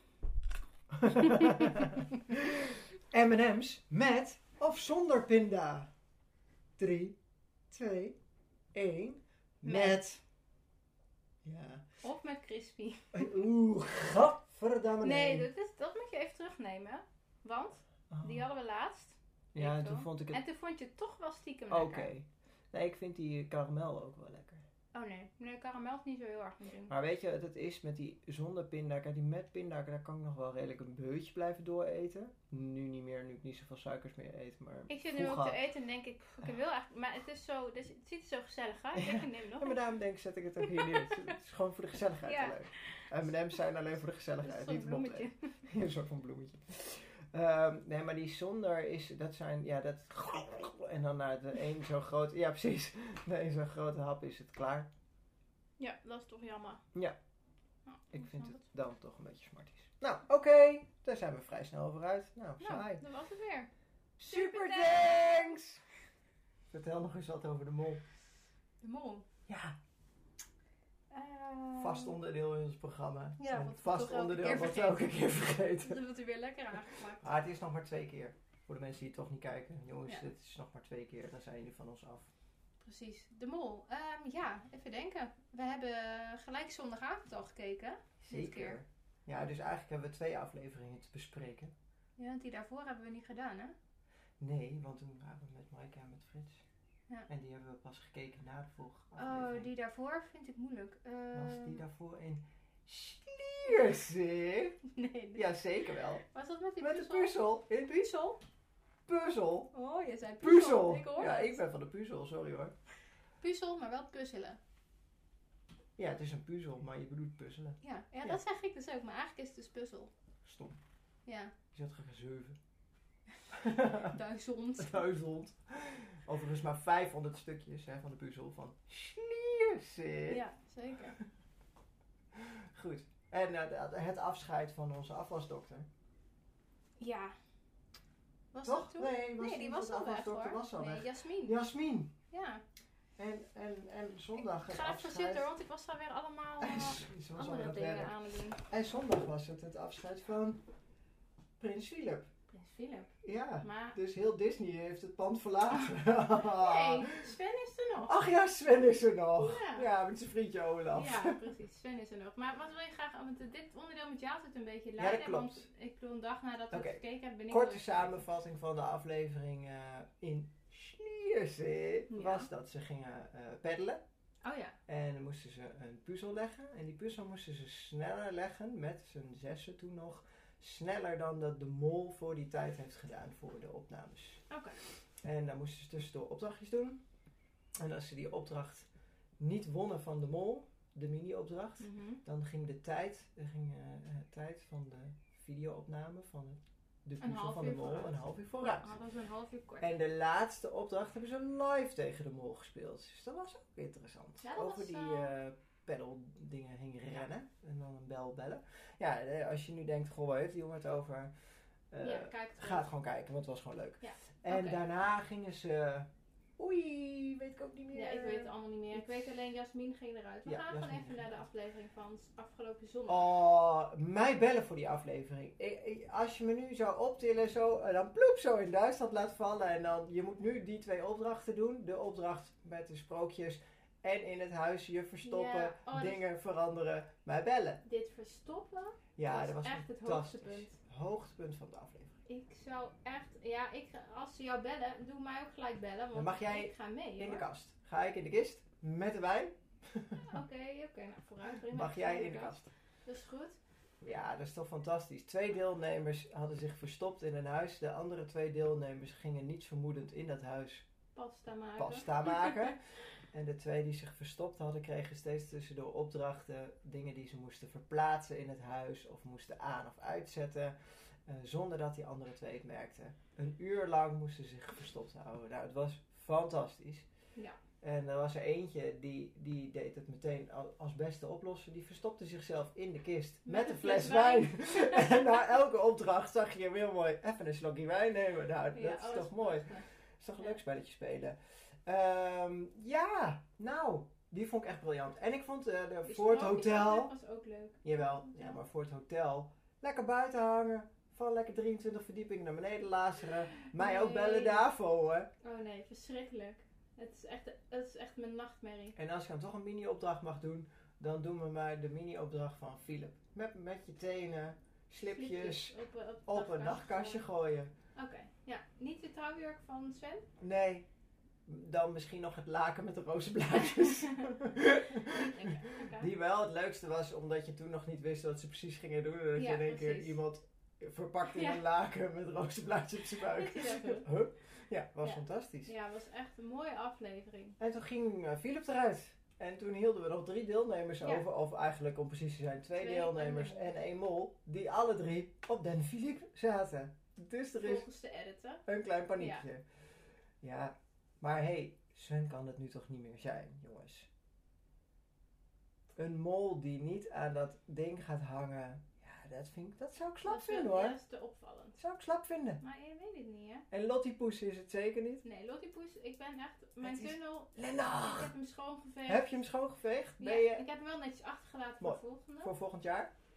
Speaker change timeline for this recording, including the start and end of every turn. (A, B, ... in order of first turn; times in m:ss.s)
0:00.9-0:05.9 A
0:06.8-0:07.2 A
0:07.7-0:08.2 A
0:08.7-0:10.2 A
0:09.6-0:10.0 B
0:11.4-0:11.8 A
0:12.0-0:13.3 B
0:13.1-0:15.5 A
0:15.0-0:22.1 B
0:18.1-0:18.5 A
0:19.5-0:20.4 A
0:21.7-0:24.6 A
0:24.9-0:27.0 B
0:26.9-0:35.6 A
0:34.9-0:39.8 B
0:39.0-0:54.9 A
0:40.6-0:41.2 B
0:42.2-0:43.0 B
0:44.4-0:45.5 B
0:55.8-0:56.8 B
0:57.9-0:58.6 B
0:58.1-1:03.0 A
1:02.6-1:03.7 B
1:04.2-1:05.8 A
1:04.3-1:05.5 B
1:06.7-1:08.0 A
1:08.8-1:09.3 B
1:09.5-1:09.8 A
1:11.1-1:12.2 B
1:11.8-1:16.0 A
1:13.4-1:15.0 B
1:15.8-1:17.3 B
1:17.0-1:22.3 A
1:22.8-1:28.8 B
1:28.2-1:31.7 A
1:32.2-1:33.8 B
1:34.4-1:36.6 A
1:37.3-1:39.7 A
1:39.2-1:41.8 B
1:41.3-1:44.8 A
1:44.8-1:45.5 B
1:45.4-1:46.2 A
1:46.3-1:47.4 B
1:46.8-1:48.1 A
1:47.9-1:48.4 B
1:49.1-1:49.7 A
1:49.7-1:51.6 B
1:50.4-1:52.7 A
1:53.4-1:54.6 B
1:56.0-1:58.4 A
1:57.8-2:00.1 B
2:00.4-2:00.8 A
2:01.3-2:01.5 B
2:01.7-2:02.6 A
2:03.5-2:04.1 A
2:04.0-2:05.1 B
2:04.8-2:10.4 A
2:10.3-2:11.2 B
2:12.3-2:15.9 A
2:17.0-2:17.3 B
2:18.5-2:21.6 B
2:18.6-2:22.1 A
2:22.3-2:22.6 B
2:23.2-2:25.5 A
2:24.4-2:28.6 B
2:26.6-2:30.6 A
2:31.6-2:32.3 A
2:32.5-2:34.0 B
2:33.2-2:37.3 A
2:36.4-2:38.1 B
2:38.1-2:41.4 A
2:39.4-2:39.9 B
2:40.9-2:48.2 B
2:45.0-2:45.7 A
2:46.7-2:54.0 A
2:52.1-2:52.5 B
2:54.4-2:54.8 B
2:54.9-3:04.4 A
3:04.5-3:04.8 B
3:05.2-3:07.0 A
3:07.8-3:08.9 A
3:09.4-3:19.0 A
3:11.8-3:12.2 B
3:17.2-3:19.9 B
3:19.8-3:31.3 A
3:24.4-3:25.3 B
3:31.9-3:39.2 A
3:32.0-3:32.9 B
3:34.0-3:34.8 B
3:37.9-3:43.3 B
3:40.5-3:41.4 A
3:43.1-3:57.8 A
3:55.2-3:56.2 B
3:57.8-4:00.8 B
3:59.2-4:02.1 A
4:02.3-4:07.4 B
4:06.1-4:10.2 A
4:10.2-4:13.6 B
4:11.7-4:12.7 A
4:14.0-4:20.9 A
4:21.1-4:22.8 B
4:21.8-4:37.1 A
4:37.8-4:57.1 A
4:43.4-4:45.2 B
4:48.7-4:49.9 B
4:56.0-4:58.6 B
4:57.8-5:05.3 A
5:03.7-5:04.7 B
5:05.4-5:09.0 B
5:09.0-5:17.7 A
5:15.0-5:17.2 B
5:18.0-5:20.3 B
5:20.4-5:20.9 A
5:21.5-5:35.7 A
5:25.0-5:26.1 B
5:29.4-5:30.2 B
5:31.3-5:31.6 B
5:33.2-5:34.1 B
5:35.0-5:37.6 B
5:37.6-5:47.9 A
5:42.8-5:43.8 B
5:47.6-5:48.6 B
5:48.7-5:49.6 A
5:49.2-5:49.4 B
5:50.4-5:54.1 A
5:56.0-6:01.0 A
6:00.2-6:01.8 B
6:01.8-6:02.6 A
6:02.6-6:03.6 B
6:03.7-6:05.2 A
6:05.2-6:09.4 B
6:06.8-6:08.3 A
6:09.1-6:10.6 A
6:10.2-6:12.5 B
6:11.8-6:13.1 A